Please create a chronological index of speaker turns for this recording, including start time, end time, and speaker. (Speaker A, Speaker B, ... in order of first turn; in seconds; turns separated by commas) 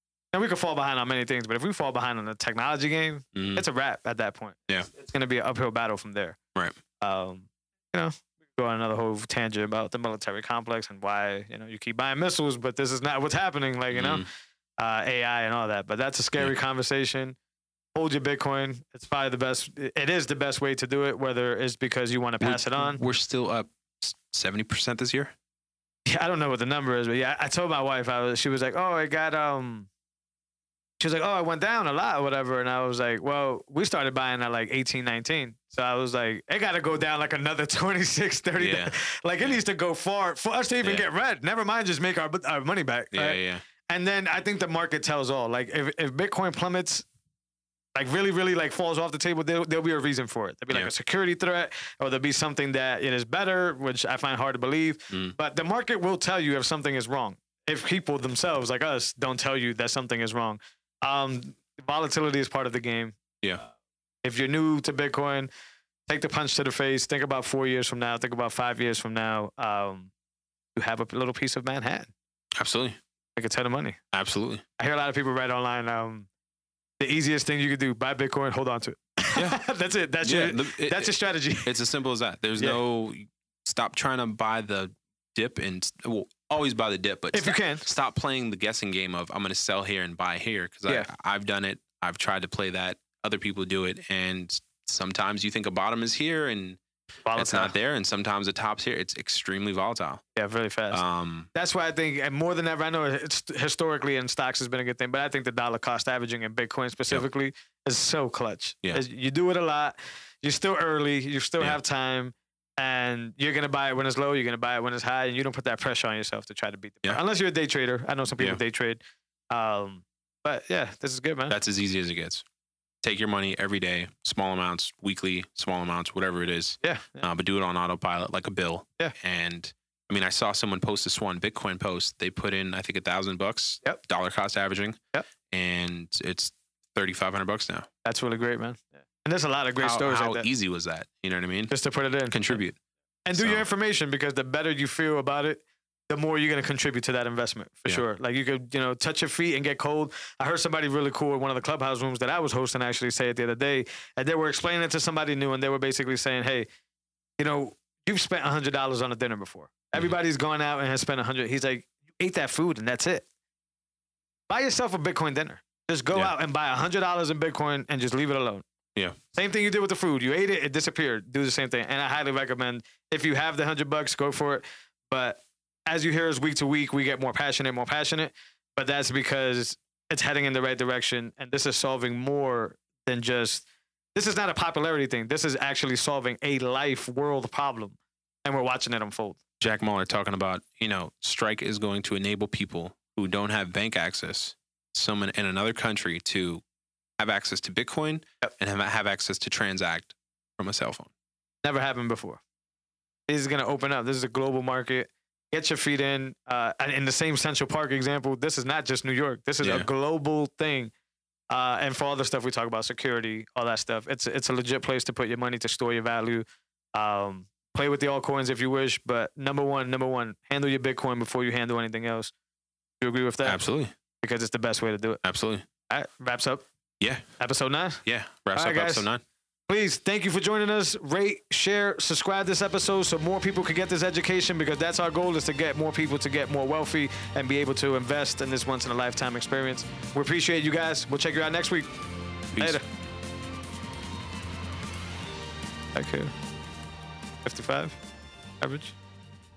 Speaker A: 0.3-6.4, Speaker B: 3.3-3.6, Speaker A: 7.0-14.2, Speaker B: 13.9-14.2, Speaker A: 14.8-17.4, Speaker A: 17.9-23.0, Speaker B: 22.4-25.3, Speaker A: 26.1-29.9, Speaker A: 31.0-47.0, Speaker B: 38.6-39.6, Speaker B: 43.1-43.6, Speaker A: 47.9-63.1, Speaker A: 64.2-65.5, Speaker A: 66.1-70.1, Speaker A: 70.7-72.1, Speaker B: 72.5-73.0, Speaker A: 73.3-74.0, Speaker B: 74.1-74.6, Speaker A: 74.8-76.3, Speaker A: 77.0-81.7, Speaker B: 79.3-79.6, Speaker B: 80.2-96.8, Speaker A: 87.3-87.8, Speaker A: 97.2-97.7, Speaker B: 97.3-100.2, Speaker A: 100.3-101.0, Speaker B: 100.9-101.5, Speaker A: 101.5-119.0, Speaker A: 119.5-121.5, Speaker B: 121.5-122.4, Speaker B: 123.0-137.9, Speaker A: 126.8-127.3, Speaker A: 138.0-140.5, Speaker B: 139.8-141.7, Speaker A: 141.7-142.6, Speaker B: 142.3-142.8, Speaker A: 143.2-156.7, Speaker B: 143.3-143.6, Speaker A: 157.4-163.2, Speaker A: 164.5-168.6, Speaker A: 169.3-189.4, Speaker B: 189.6-196.6, Speaker B: 197.2-201.1, Speaker A: 201.6-202.4, Speaker A: 203.3-210.9, Speaker B: 209.6-209.9, Speaker A: 211.5-222.3, Speaker A: 223.0-223.6, Speaker B: 223.4-223.9, Speaker A: 224.2-225.2, Speaker B: 225.2-225.6, Speaker A: 225.9-226.6, Speaker B: 227.0-227.2, Speaker A: 227.4-228.0, Speaker B: 228.0-229.2, Speaker A: 228.5-229.1, Speaker A: 229.7-241.9, Speaker B: 242.5-242.8, Speaker A: 242.6-242.8, Speaker A: 245.9-246.3, Speaker A: 247.4-248.0, Speaker A: 248.6-248.9